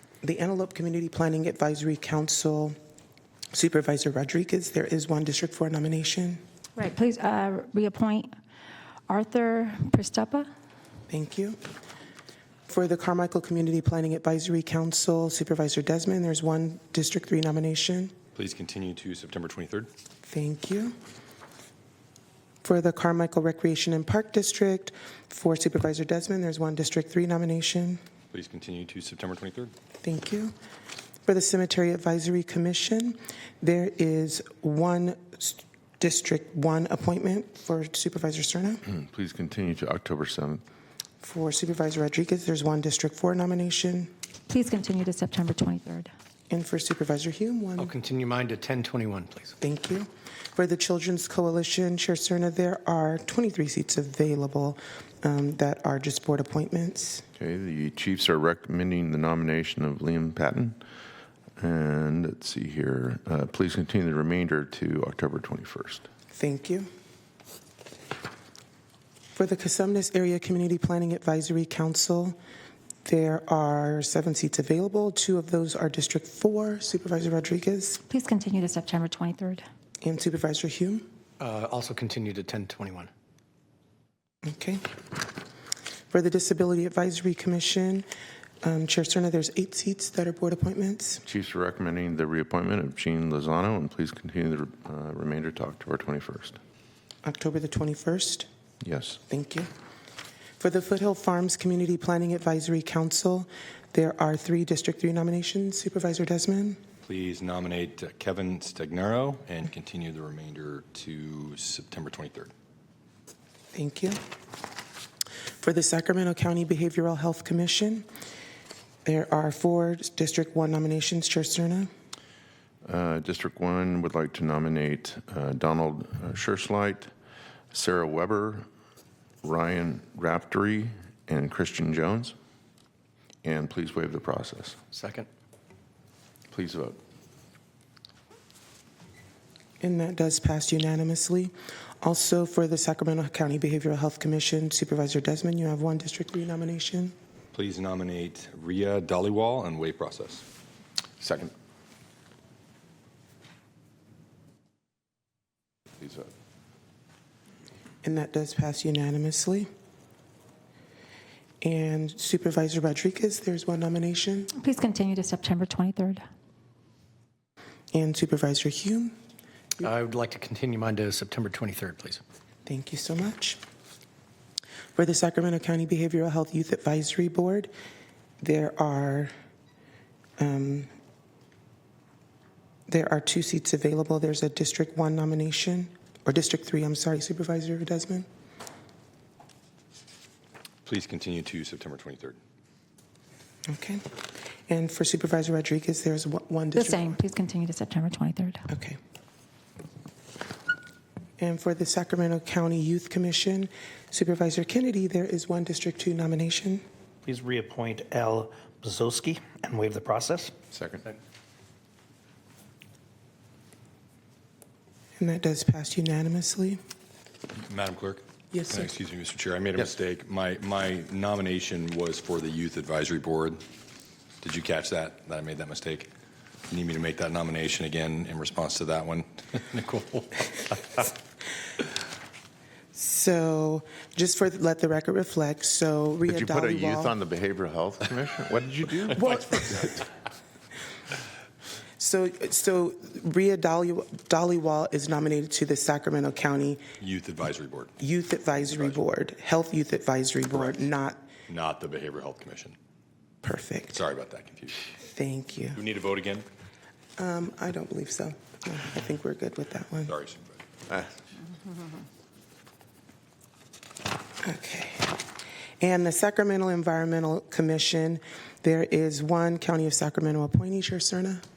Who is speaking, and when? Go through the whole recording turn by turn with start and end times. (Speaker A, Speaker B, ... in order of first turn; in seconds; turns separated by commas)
Speaker A: 0.2-2.8, Speaker A: 3.5-6.4, Speaker B: 6.8-8.3, Speaker B: 9.1-10.5, Speaker A: 11.1-11.6, Speaker A: 12.7-18.1, Speaker C: 18.3-19.9, Speaker A: 20.2-20.9, Speaker A: 22.6-28.0, Speaker C: 28.3-29.7, Speaker A: 30.0-30.5, Speaker A: 31.2-38.8, Speaker D: 38.8-40.6, Speaker A: 41.2-44.1, Speaker B: 44.5-46.1, Speaker A: 46.5-47.9, Speaker E: 47.8-49.5, Speaker A: 49.6-57.2, Speaker D: 57.4-60.8, Speaker D: 61.6-66.0, Speaker A: 66.3-66.9, Speaker A: 69.3-72.3, Speaker A: 73.0-78.0, Speaker B: 78.1-79.6, Speaker A: 80.0-81.0, Speaker E: 81.4-83.1, Speaker A: 84.4-84.8, Speaker A: 86.1-88.0, Speaker A: 88.6-91.2, Speaker D: 91.2-96.6, Speaker A: 97.2-98.5, Speaker D: 98.8-99.2, Speaker A: 99.3-99.7, Speaker A: 100.6-106.8, Speaker C: 107.0-112.5, Speaker A: 113.7-114.2, Speaker A: 115.6-118.0, Speaker A: 119.0-121.9, Speaker D: 122.8-127.1, Speaker D: 127.7-128.7, Speaker D: 129.4-132.3, Speaker D: 133.4-134.8, Speaker E: 134.9-135.3, Speaker D: 136.5-137.0, Speaker A: 139.8-147.1, Speaker C: 147.5-150.4, Speaker D: 151.2-151.5, Speaker D: 156.0-156.3, Speaker A: 158.0-159.7, Speaker A: 161.6-164.5, Speaker B: 164.5-166.2, Speaker A: 167.9-169.1, Speaker E: 169.8-172.2, Speaker A: 172.7-173.6, Speaker A: 174.9-177.7, Speaker A: 178.4-179.3, Speaker A: 180.4-180.9, Speaker A: 182.9-188.3, Speaker C: 190.8-192.4, Speaker A: 193.7-194.1, Speaker A: 194.7-197.2, Speaker B: 196.7-198.6, Speaker A: 198.7-199.0, Speaker A: 201.4-206.8, Speaker F: 207.2-210.5, Speaker D: 210.7-211.0, Speaker A: 215.2-216.8, Speaker C: 217.5-223.6, Speaker A: 218.5-218.9, Speaker C: 224.4-226.1, Speaker C: 226.7-231.0, Speaker A: 232.9-237.1, Speaker D: 236.3-239.2, Speaker A: 239.2-240.1, Speaker A: 242.0-246.8, Speaker C: 247.0-248.0, Speaker A: 248.0-251.2, Speaker C: 248.6-249.0, Speaker C: 250.5-250.8, Speaker C: 251.5-252.8, Speaker A: 253.4-254.0, Speaker C: 253.9-254.9, Speaker A: 255.0-255.8, Speaker C: 255.7-256.4, Speaker A: 257.2-260.1, Speaker C: 260.1-260.6, Speaker A: 264.4-265.1, Speaker A: 265.8-271.4